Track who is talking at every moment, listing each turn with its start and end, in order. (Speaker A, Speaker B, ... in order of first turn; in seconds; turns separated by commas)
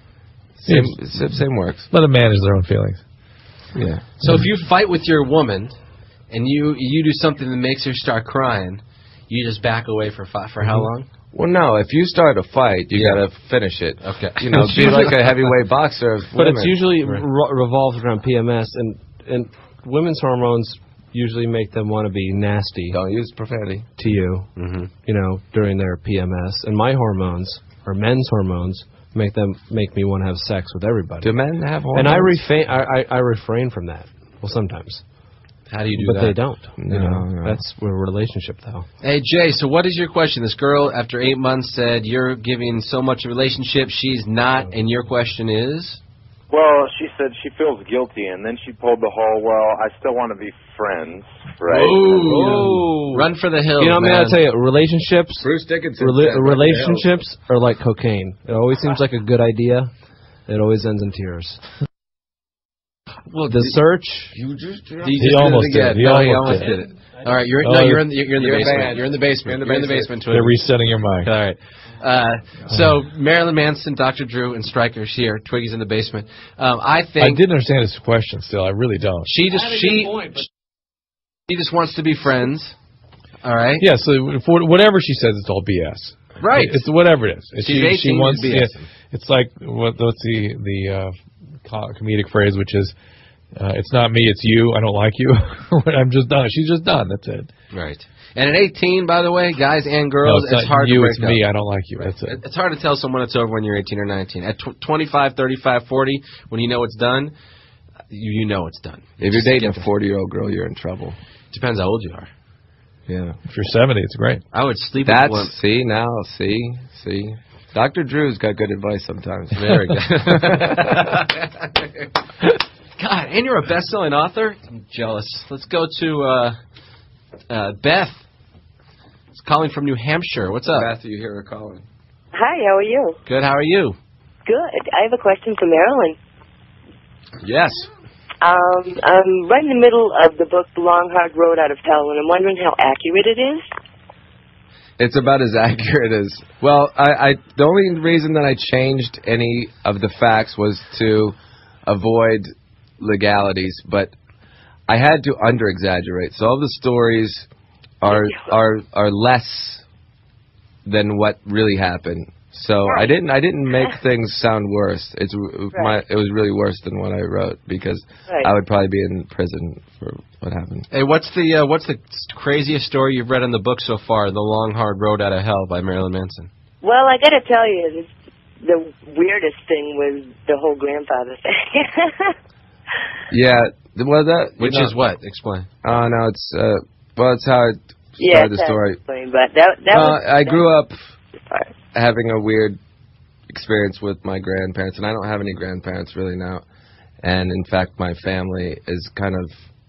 Speaker A: 0.6-1.9, Speaker B: 0.7-1.4, Speaker B: 1.9-3.0, Speaker A: 3.7-4.0, Speaker C: 4.2-5.8, Speaker C: 6.3-11.1, Speaker A: 11.3-16.8, Speaker C: 12.9-13.2, Speaker C: 14.0-15.2, Speaker D: 14.7-15.1, Speaker D: 16.3-23.0, Speaker A: 22.9-23.9, Speaker D: 24.0-24.5, Speaker C: 24.6-24.9, Speaker D: 25.0-31.3, Speaker A: 31.2-32.4, Speaker D: 31.9-35.0, Speaker C: 35.7-36.4, Speaker D: 35.9-38.9, Speaker A: 36.8-37.6, Speaker C: 39.0-46.0, Speaker E: 46.5-52.3, Speaker C: 51.7-54.4, Speaker A: 52.1-53.3, Speaker D: 52.5-52.8, Speaker D: 53.8-59.9, Speaker A: 55.4-57.1, Speaker D: 60.5-61.6, Speaker C: 63.3-63.8, Speaker D: 63.5-64.3, Speaker A: 64.3-66.6, Speaker C: 65.0-70.6, Speaker B: 65.2-66.7, Speaker B: 67.6-68.1, Speaker A: 68.3-70.2, Speaker B: 70.3-71.3, Speaker C: 71.2-77.4, Speaker B: 77.2-79.3, Speaker C: 79.2-80.5, Speaker C: 81.5-82.7, Speaker C: 83.4-83.9, Speaker B: 83.8-92.9, Speaker C: 86.4-86.8, Speaker C: 87.6-88.9, Speaker B: 93.5-97.5, Speaker C: 97.7-101.4, Speaker B: 100.2-102.4, Speaker C: 102.0-107.3, Speaker C: 108.1-109.9, Speaker A: 109.2-111.2, Speaker C: 111.5-112.3, Speaker A: 113.1-113.4, Speaker B: 113.5-114.4, Speaker C: 114.5-115.5, Speaker A: 115.0-120.9, Speaker C: 119.5-121.8, Speaker C: 123.0-126.6, Speaker C: 127.5-128.2, Speaker C: 129.3-130.9, Speaker A: 130.7-131.8, Speaker F: 132.3-133.2, Speaker C: 133.2-133.9, Speaker F: 134.5-136.2, Speaker C: 137.4-137.8, Speaker F: 138.4-143.6, Speaker A: 145.0-151.3, Speaker A: 151.9-152.5, Speaker A: 153.0-154.1, Speaker A: 154.9-157.5, Speaker A: 158.0-159.8, Speaker A: 160.8-170.9, Speaker C: 170.9-176.5, Speaker F: 176.8-178.1, Speaker F: 178.6-182.3, Speaker A: 183.3-184.9, Speaker C: 184.6-185.7, Speaker A: 185.8-189.0, Speaker F: 188.2-190.6, Speaker A: 189.9-190.9, Speaker F: 191.4-191.7, Speaker A: 191.9-192.8, Speaker A: 193.5-196.6, Speaker A: 197.2-199.5